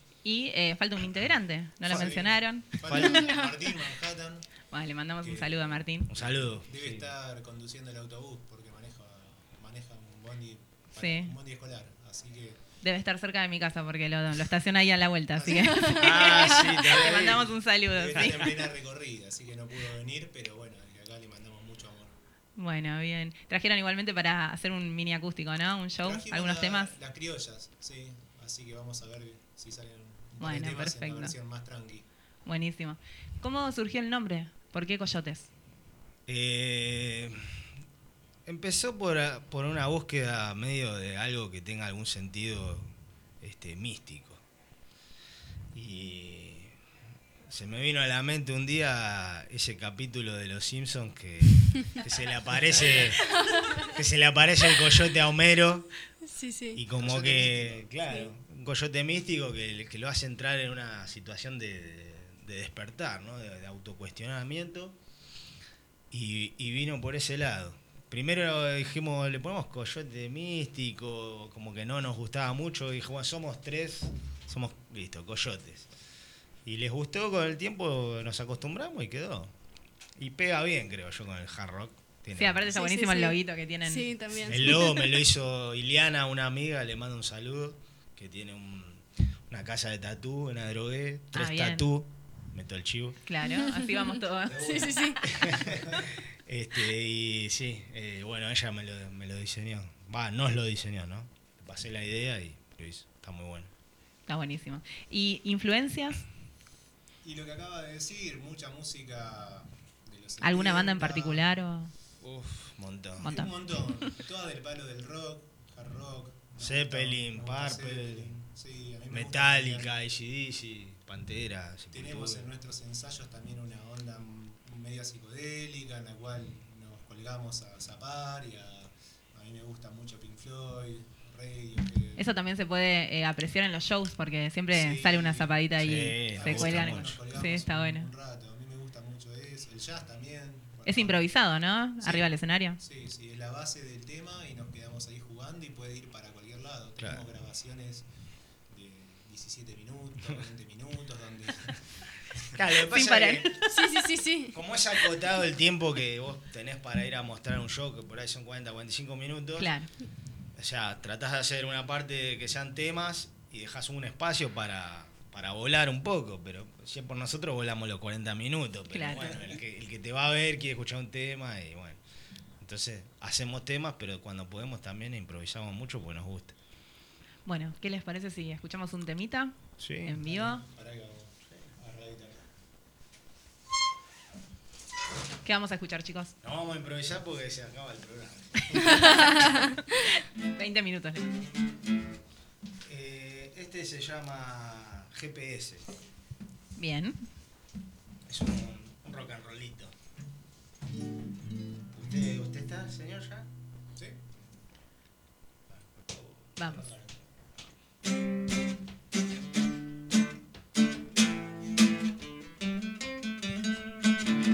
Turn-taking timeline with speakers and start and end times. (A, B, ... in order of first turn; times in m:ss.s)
0:00.2-0:03.2 A
0:01.9-0:04.5 B
0:02.8-0:03.2 C
0:03.1-0:03.5 D
0:04.7-0:06.1 A
0:05.2-0:12.6 B
0:06.1-0:07.1 C
0:10.9-0:11.4 A
0:12.8-0:18.6 A
0:15.4-0:16.0 B
0:15.8-0:16.7 D
0:15.9-0:17.5 C
0:17.9-0:22.1 B
0:18.2-0:18.5 C
0:22.6-0:26.9 A
0:26.0-0:32.1 B
0:30.4-0:31.4 A
0:32.5-0:35.5 A
0:36.3-0:37.4 C
0:38.5-0:42.9 C
0:43.4-0:44.4 C
0:45.7-0:46.7 C
0:47.5-0:53.3 C
0:53.4-0:53.7 D
0:53.8-0:55.9 C
0:56.2-0:56.8 D
0:56.8-1:05.0 C
0:56.9-0:57.9 B
1:06.1-1:15.9 C
1:16.7-1:19.5 C
1:20.2-1:22.8 C
1:22.3-1:24.1 A
1:22.7-1:25.0 D
1:24.5-1:33.2 C
1:31.3-1:31.9 A
1:33.2-1:34.9 A
1:33.4-1:35.2 D
1:35.2-1:43.7 C
1:44.3-1:46.3 A
1:47.2-1:51.5 B
1:50.4-1:51.9 A
1:52.2-1:53.4 C
1:53.2-1:53.5 A
1:53.2-1:59.9 B
1:56.6-1:58.3 C
1:59.1-2:02.5 C
2:01.9-2:12.3 B
2:12.2-2:18.1 A
2:14.7-2:21.3 B
2:15.8-2:17.3 C
2:20.8-2:22.8 A
2:22.8-2:28.1 B
2:28.7-2:31.8 B
2:32.5-2:33.6 C
2:32.9-2:33.6 A
2:33.7-2:34.5 D
2:34.5-2:39.7 C
2:39.6-2:39.9 A
2:40.6-2:52.0 C
2:48.9-2:49.5 A
2:52.6-2:56.6 C
2:57.5-3:00.6 A
2:59.8-3:00.2 C
3:00.1-3:02.4 B
3:05.4-3:06.3 A
3:06.4-3:09.3 C
3:08.7-3:11.4 A
3:12.9-3:15.8 C
3:16.8-3:17.2 A
3:18.3-3:19.9 C
3:21.9-3:23.5 C
3:24.0-3:24.2 B
3:25.7-3:27.2 C
3:26.6-3:26.9 A